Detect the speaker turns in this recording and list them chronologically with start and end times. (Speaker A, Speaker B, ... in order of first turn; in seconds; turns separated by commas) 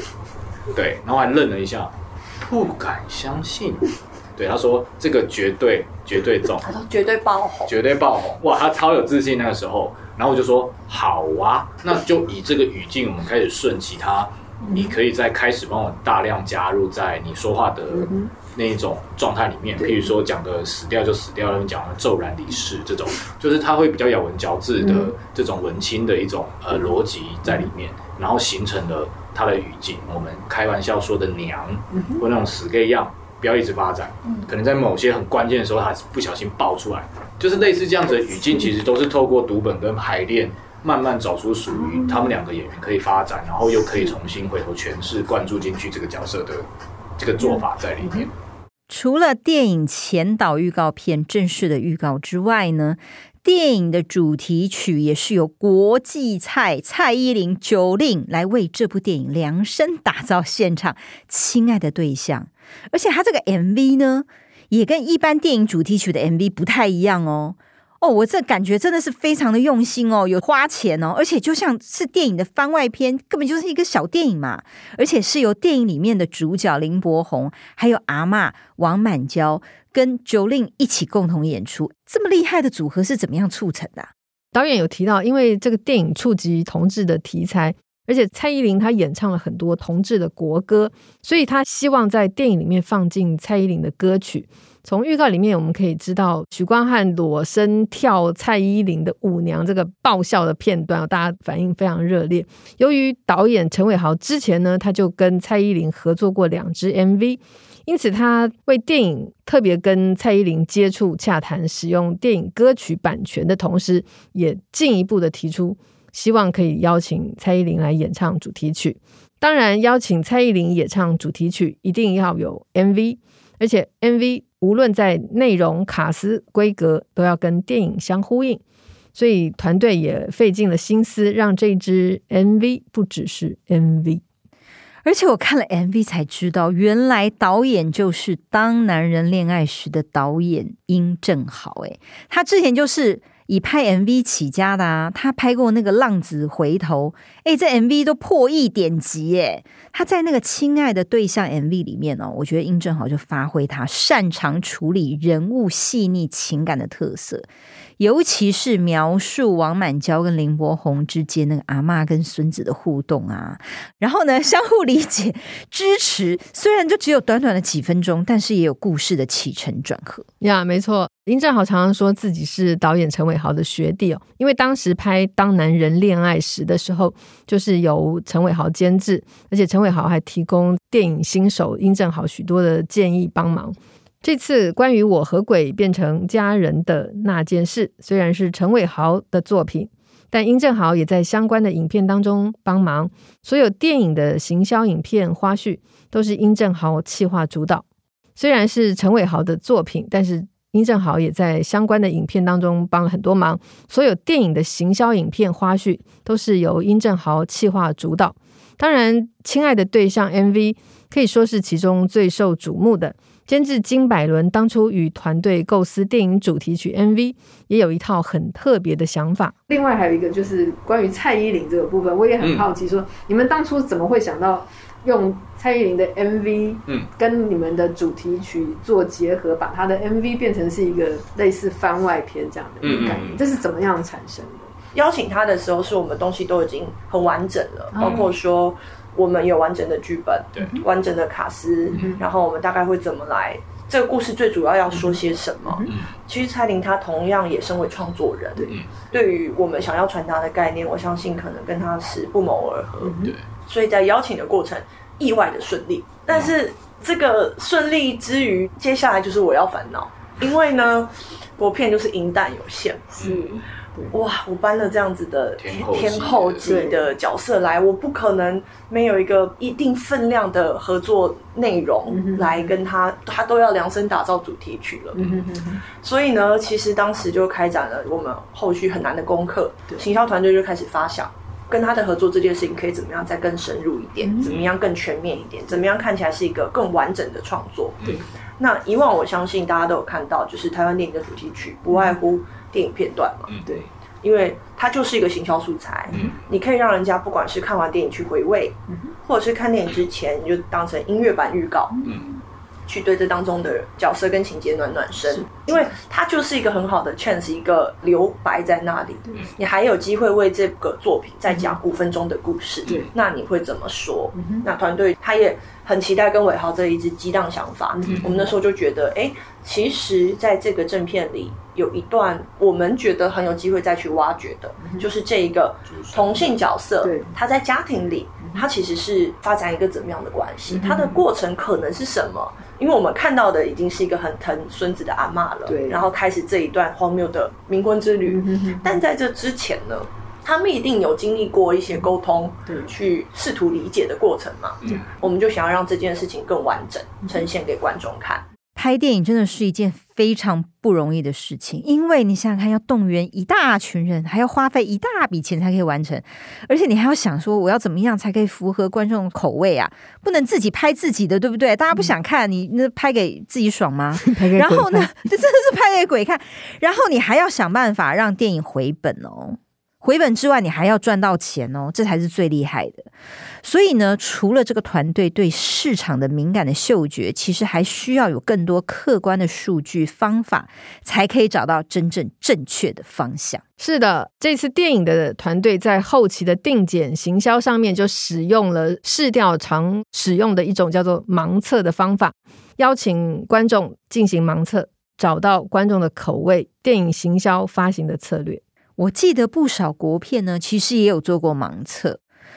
Speaker A: 0.7-6.7, Speaker B: 6.6-7.7, Speaker A: 7.7-46.7, Speaker C: 14.7-14.9, Speaker C: 17.9-18.3, Speaker C: 19.8-20.1, Speaker C: 24.8-25.1, Speaker C: 31.9-32.2, Speaker C: 41.8-42.2, Speaker A: 47.2-48.3, Speaker C: 47.4-48.3, Speaker D: 48.9-84.1, Speaker E: 84.5-128.6, Speaker E: 129.2-134.2, Speaker D: 135.0-157.5, Speaker D: 158.0-170.3, Speaker E: 170.4-197.8, Speaker E: 198.4-219.6, Speaker C: 219.7-234.7, Speaker A: 222.4-222.7, Speaker A: 232.8-233.4, Speaker B: 234.9-263.2, Speaker C: 237.9-238.3, Speaker A: 238.0-238.3, Speaker A: 240.5-240.8, Speaker C: 253.0-253.4, Speaker A: 263.2-263.7, Speaker C: 263.2-264.1, Speaker B: 264.1-275.3, Speaker A: 265.6-266.7, Speaker C: 266.6-267.1, Speaker C: 272.1-272.7, Speaker C: 275.2-275.8, Speaker B: 275.9-288.0, Speaker A: 284.4-284.7, Speaker B: 288.6-293.6, Speaker A: 293.5-293.8, Speaker B: 294.2-302.0, Speaker A: 302.1-302.3, Speaker B: 302.9-348.4, Speaker C: 305.3-305.8, Speaker C: 311.5-311.8, Speaker C: 314.4-314.6, Speaker C: 318.0-318.5, Speaker A: 325.9-326.5, Speaker C: 327.0-327.3, Speaker C: 330.7-331.2, Speaker C: 335.7-336.0, Speaker C: 338.3-339.0, Speaker D: 348.8-373.1, Speaker E: 364.2-365.3, Speaker D: 373.6-383.6, Speaker E: 383.8-398.6, Speaker D: 399.0-402.2